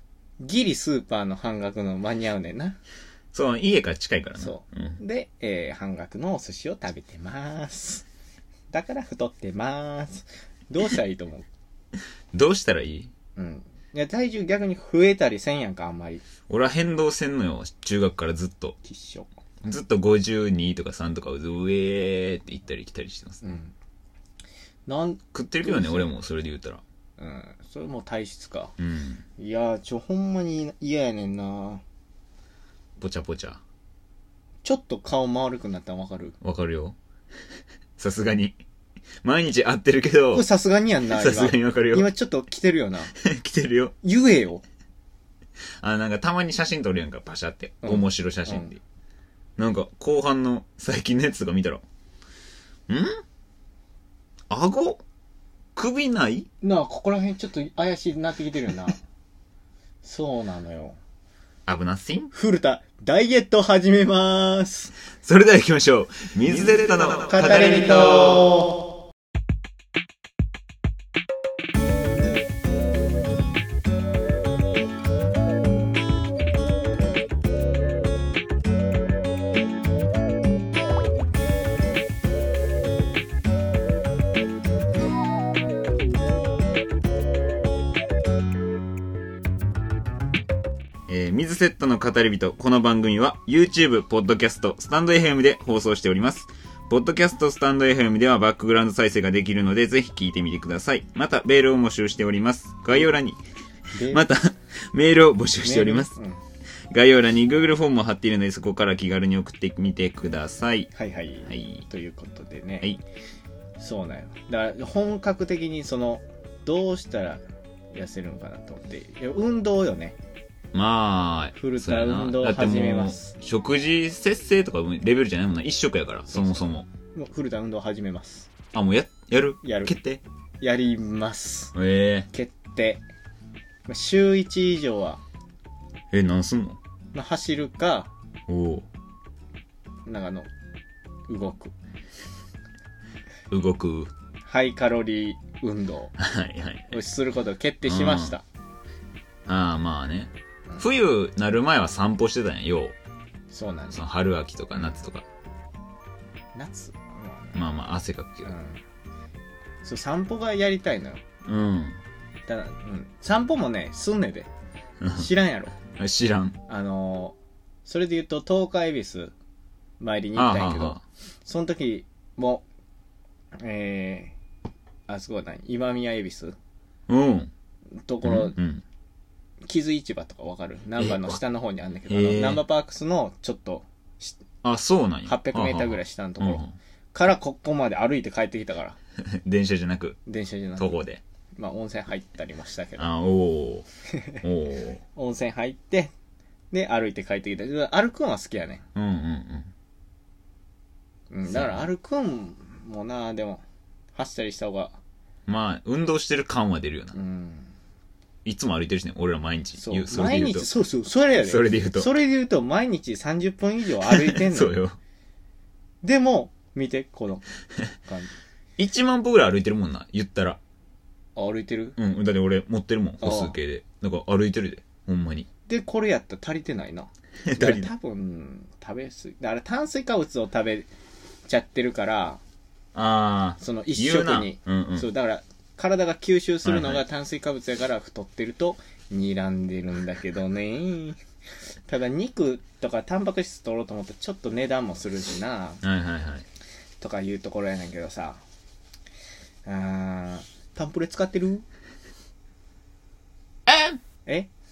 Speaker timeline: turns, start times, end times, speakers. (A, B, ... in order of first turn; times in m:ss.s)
0:00.4-0:02.8 A
0:03.3-0:05.0 B
0:04.4-0:08.0 A
0:08.7-0:11.4 A
0:12.3-0:13.1 B
0:13.4-0:16.2 A
0:16.5-0:18.8 B
0:18.8-0:19.3 A
0:19.6-0:23.5 B
0:23.4-0:23.7 A
0:24.9-0:26.1 A
0:25.3-0:26.8 B
0:27.2-0:28.7 A
0:28.8-0:29.2 B
0:29.4-0:31.8 A
0:33.0-0:33.6 B
0:34.6-0:36.4 A
0:36.4-0:37.0 B
0:38.0-0:38.6 B
0:39.2-0:40.4 B
0:40.3-0:43.1 A
0:41.1-0:42.1 B
0:43.2-0:43.9 B
0:44.0-0:44.6 A
0:45.8-0:48.8 B
0:47.8-0:48.8 A
0:49.6-0:51.8 B
0:52.9-0:53.2 B
0:54.5-0:55.0 B
0:55.8-0:56.5 B
0:56.6-0:59.0 A
1:00.0-1:01.0 A
1:01.7-1:02.3 B
1:02.3-1:04.9 A
1:05.2-1:08.5 B
1:07.2-1:08.8 A
1:31.1-1:43.4 B
1:43.9-1:44.2 A
1:44.1-1:46.1 B
1:45.6-1:46.4 A
1:46.9-1:50.9 B
1:50.9-1:53.0 A
1:51.4-1:51.8 B
1:53.8-1:57.4 A
1:57.9-2:00.2 A
2:00.7-2:06.9 B
2:01.6-2:03.3 A
2:06.3-2:08.5 A
2:08.7-2:10.2 B
2:09.6-2:09.9 A
2:10.6-2:11.7 A
2:11.7-2:12.3 B
2:12.3-2:13.0 A
2:13.9-2:15.2 A
2:16.1-2:16.8 B
2:17.1-2:18.1 A
2:18.5-2:18.9 B
2:20.0-2:20.5 A
2:21.3-2:21.7 A
2:23.5-2:24.1 B
2:24.5-2:26.2 A
2:26.2-2:26.9 B
2:26.9-2:28.4 A
2:27.8-2:28.4 B
2:29.5-2:33.0 B
2:33.5-2:34.0 A
2:33.9-2:35.2 B
2:36.5-2:37.6 A
2:37.5-2:38.5 B
2:38.4-2:38.8 A
2:39.8-2:41.2 A
2:41.5-2:42.0 B
2:42.5-2:44.5 A
2:45.0-2:45.3 B
2:45.1-2:45.8 A
2:45.9-2:46.6 B
2:46.7-2:49.3 A
2:50.0-2:52.6 A
2:50.3-2:51.0 B
2:53.6-2:54.3 A
2:55.1-2:56.6 A
2:57.1-2:57.5 B
2:58.0-2:58.6 A
2:58.2-2:58.8 B
2:59.7-3:04.4 A
3:01.0-3:01.4 B
3:02.1-3:02.6 B
3:04.6-3:06.8 B
3:05.2-3:09.0 A
3:09.2-3:10.2 B
3:10.2-3:10.9 A
3:10.8-3:11.2 B
3:11.6-3:13.0 A
3:13.0-3:13.9 B
3:14.2-3:14.4 A
3:14.4-3:15.0 B
3:15.2-3:16.1 A
3:16.7-3:18.8 A
3:18.9-3:19.7 B
3:21.3-3:23.6 A
3:21.5-3:21.8 B
3:24.2-3:25.0 A
3:25.5-3:27.2 B
3:27.1-3:27.7 A
3:28.4-3:30.7 B
3:29.8-3:34.7 A
3:31.4-3:32.1 B
3:34.1-3:35.0 B
3:36.0-3:37.4 A
3:38.0-3:38.3 A
3:38.8-3:40.6 B
3:41.4-3:42.0 A
3:42.0-3:45.5 B
3:43.2-3:43.5 A
3:45.7-3:50.9 A
3:47.4-3:47.9 B
3:51.5-3:52.4 A
3:52.9-3:55.0 B
3:53.6-4:01.2 A
3:56.6-3:57.0 B
4:01.9-4:05.8 A
4:05.8-4:06.5 B
4:07.0-4:08.4 A
4:09.7-4:11.6 A
4:13.7-4:14.0 B